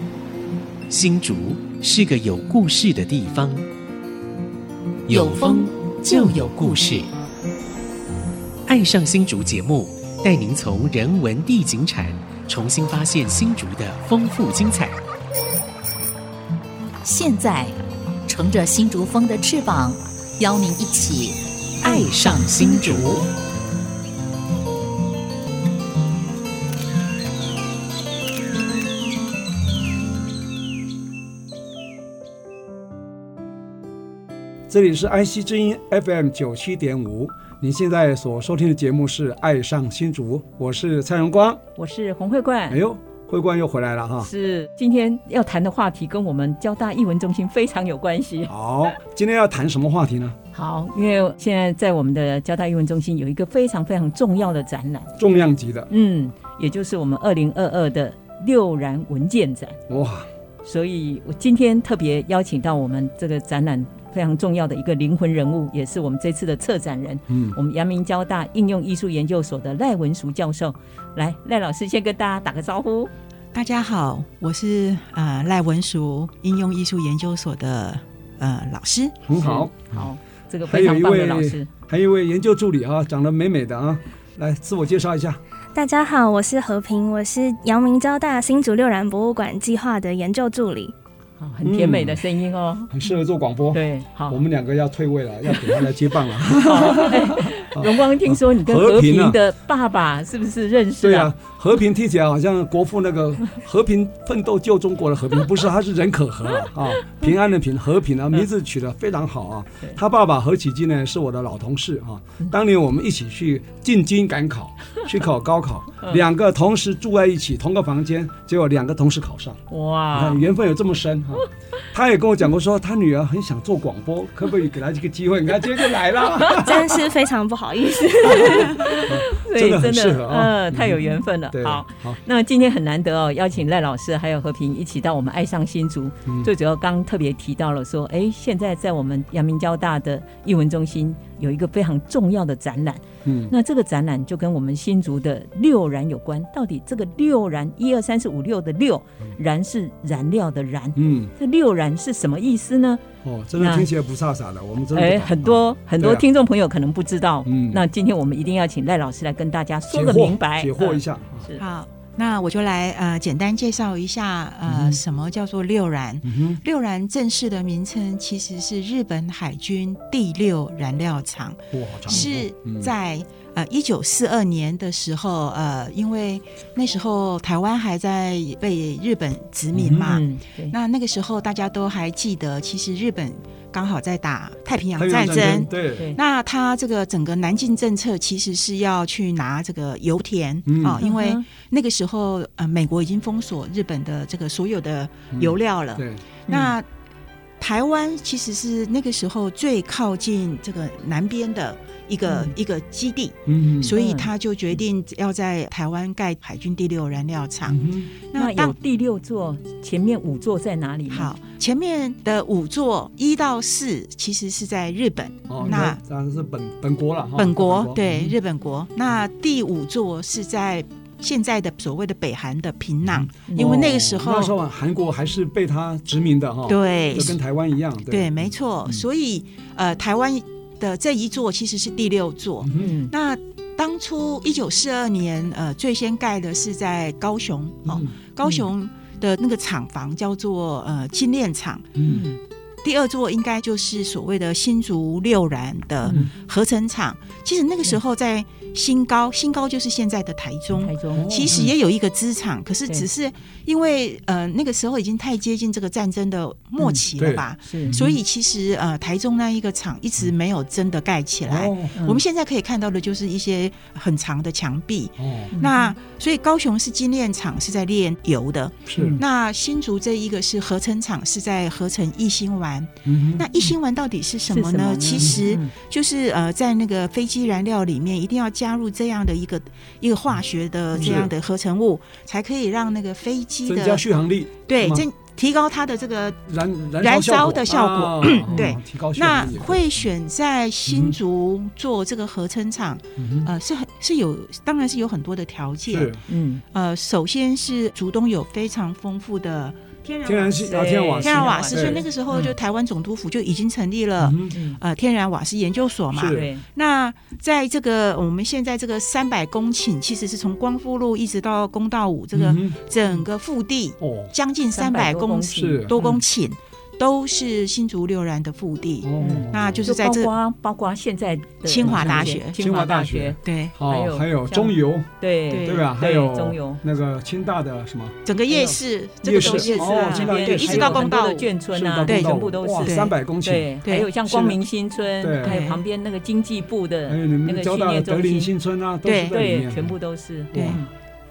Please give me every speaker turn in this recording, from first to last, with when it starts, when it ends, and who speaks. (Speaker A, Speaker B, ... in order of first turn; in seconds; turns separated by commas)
Speaker A: 0.9-3.6, Speaker A: 5.1-7.1, Speaker B: 5.1-7.0, Speaker A: 8.7-15.0, Speaker B: 17.0-23.1, Speaker A: 21.8-23.3, Speaker C: 34.7-41.6, Speaker D: 41.8-42.8, Speaker C: 42.7-44.3, Speaker D: 44.2-48.5, Speaker C: 48.5-50.4, Speaker D: 50.5-55.1, Speaker C: 55.2-55.9, Speaker D: 55.9-59.8, Speaker C: 59.9-60.3, Speaker D: 60.6-73.1, Speaker C: 67.3-67.6, Speaker E: 73.5-79.2, Speaker C: 79.2-80.1, Speaker D: 79.4-81.7, Speaker C: 80.7-85.4, Speaker F: 85.8-90.9, Speaker D: 91.4-92.9, Speaker C: 91.6-92.2, Speaker C: 92.9-99.4, Speaker D: 93.7-94.4, Speaker D: 95.5-95.7, Speaker D: 96.5-101.3, Speaker C: 101.0-119.6, Speaker D: 119.7-120.4, Speaker C: 120.1-127.0, Speaker F: 126.5-129.0, Speaker D: 128.2-153.0, Speaker C: 128.3-132.2, Speaker C: 136.3-136.5, Speaker C: 143.2-143.5, Speaker C: 151.0-151.3, Speaker C: 153.2-156.3, Speaker D: 153.6-153.9, Speaker D: 154.9-161.7, Speaker C: 157.5-157.8, Speaker C: 159.9-161.5, Speaker E: 161.6-196.9, Speaker C: 164.7-165.0, Speaker C: 166.2-166.6, Speaker C: 171.7-172.9, Speaker C: 179.7-180.1, Speaker D: 179.9-180.8, Speaker C: 185.0-186.1, Speaker D: 185.4-186.2, Speaker C: 190.7-191.0, Speaker D: 191.0-191.5, Speaker C: 195.3-196.2, Speaker D: 196.5-196.7, Speaker E: 197.6-207.8, Speaker D: 202.3-202.5, Speaker C: 203.5-204.0, Speaker D: 203.9-204.3, Speaker C: 207.7-208.1, Speaker E: 208.3-208.8, Speaker D: 208.3-211.3, Speaker E: 211.1-216.0, Speaker C: 215.5-218.3, Speaker E: 217.4-224.5, Speaker C: 223.0-229.1, Speaker D: 223.5-223.8, Speaker E: 226.7-227.4, Speaker E: 228.1-242.1, Speaker C: 232.6-232.9, Speaker D: 232.7-233.1, Speaker C: 237.9-238.1, Speaker C: 242.0-242.2, Speaker D: 242.0-242.4, Speaker E: 242.8-284.0, Speaker C: 246.1-246.3, Speaker D: 250.8-251.7, Speaker C: 251.1-251.6, Speaker C: 257.2-258.2, Speaker D: 257.6-258.0, Speaker C: 261.5-262.0, Speaker D: 261.9-262.2, Speaker C: 265.2-265.5, Speaker D: 265.5-265.9, Speaker C: 268.9-269.2, Speaker D: 269.0-269.2, Speaker C: 273.1-273.5, Speaker D: 274.5-275.7, Speaker D: 280.9-281.2, Speaker C: 281.0-281.3, Speaker C: 283.6-285.1, Speaker E: 284.7-286.5, Speaker C: 286.5-290.0, Speaker E: 287.0-320.3, Speaker D: 288.5-288.7, Speaker C: 290.9-291.2, Speaker C: 293.2-293.5, Speaker C: 295.9-296.2, Speaker D: 296.3-296.6, Speaker C: 300.2-302.0, Speaker D: 300.6-302.5, Speaker C: 304.2-304.5, Speaker D: 304.5-304.8, Speaker C: 306.1-306.5, Speaker D: 306.2-306.6, Speaker C: 312.3-312.8, Speaker C: 314.0-314.3, Speaker D: 314.8-316.2, Speaker C: 315.5-315.9, Speaker C: 319.0-319.9, Speaker D: 319.2-326.8, Speaker E: 321.6-322.6, Speaker C: 321.8-325.1, Speaker E: 323.4-323.8, Speaker E: 325.5-325.9, Speaker C: 325.6-328.2, Speaker E: 328.3-331.5, Speaker D: 328.5-338.5, Speaker C: 329.2-331.2, Speaker C: 331.7-333.7, Speaker E: 332.1-333.1, Speaker C: 334.3-334.6, Speaker C: 335.2-335.6, Speaker E: 335.4-335.8, Speaker C: 337.1-339.9, Speaker E: 339.1-339.5, Speaker D: 339.3-340.9, Speaker C: 340.5-340.8, Speaker E: 340.5-340.8